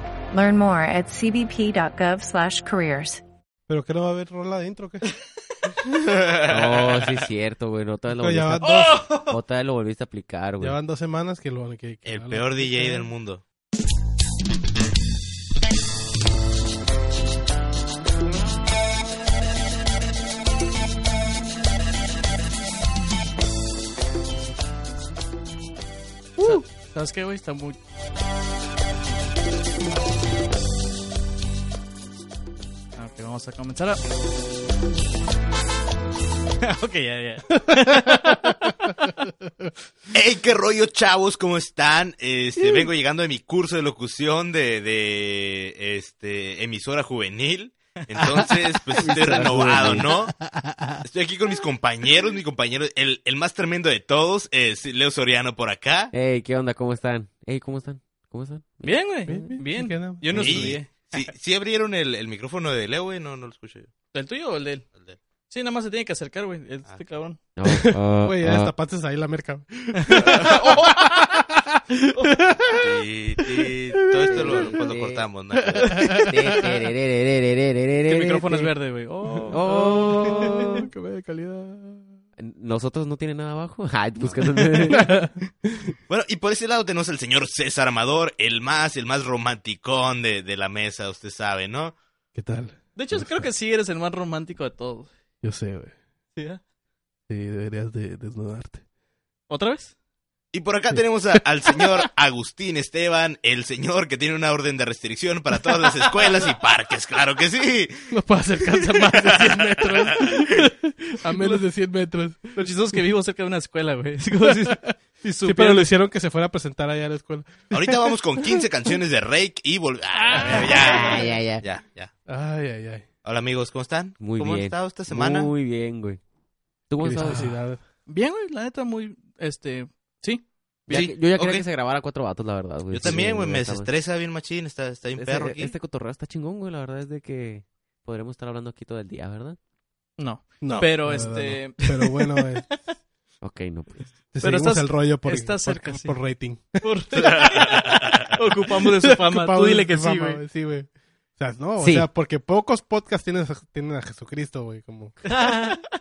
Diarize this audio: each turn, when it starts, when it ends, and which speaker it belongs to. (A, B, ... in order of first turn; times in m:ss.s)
0:00.3-0:03.2 A
0:03.7-0:05.1 B
0:05.9-0:07.2 C
0:06.4-0:10.8 D
0:08.2-0:09.0 B
0:08.6-0:09.4 E
0:10.6-0:13.1 B
0:12.0-0:13.4 C
0:26.4-0:27.8 E
0:33.0-0:34.0 E
0:36.6-0:39.1 E
0:37.6-0:39.1 B
0:40.1-0:50.4 C
0:49.0-0:50.1 D
0:49.1-0:51.0 B
0:51.0-0:56.1 C
0:56.1-0:59.1 D
0:58.8-1:01.3 E
0:59.3-1:00.8 B
1:00.3-1:03.9 C
1:04.1-1:04.9 E
1:05.5-1:07.4 E
1:07.6-1:08.7 D
1:07.6-1:13.0 B
1:10.0-1:11.4 E
1:12.7-1:16.2 C
1:14.3-1:15.2 D
1:15.7-1:16.9 B
1:16.0-1:18.7 D
1:18.0-1:20.8 E
1:19.3-1:22.2 B
1:19.5-1:20.8 D
1:22.4-1:25.2 D
1:24.4-1:25.9 B
1:26.1-1:32.0 C
1:32.3-1:33.4 B
1:33.0-1:35.1 E
1:35.4-1:35.9 B
1:36.4-1:36.6 E
1:37.3-1:38.8 B
1:39.5-1:39.9 E
1:40.5-1:48.2 C
1:40.9-1:42.0 B
1:48.1-1:52.6 B
1:48.9-1:50.4 C
1:52.6-1:55.9 E
1:54.4-1:54.9 B
1:55.4-1:58.6 B
1:57.7-2:02.1 C
2:00.3-2:01.1 E
2:00.3-2:01.0 B
2:00.7-2:01.6 D
2:02.3-2:03.1 B
2:03.2-2:05.5 C
2:04.2-2:06.2 D
2:06.9-2:07.5 D
2:07.0-2:07.8 B
2:08.1-2:11.0 E
2:10.9-2:13.9 D
2:10.9-2:11.6 C
2:12.9-2:15.7 C
2:15.2-2:19.6 D
2:20.2-2:22.4 E
2:20.6-2:22.7 B
2:23.4-2:24.1 D
2:24.3-2:26.8 B
2:24.4-2:26.2 E
2:26.8-2:30.4 E
2:27.2-2:28.3 C
2:28.9-2:35.2 B
2:31.8-2:32.1 D
2:35.2-2:35.8 E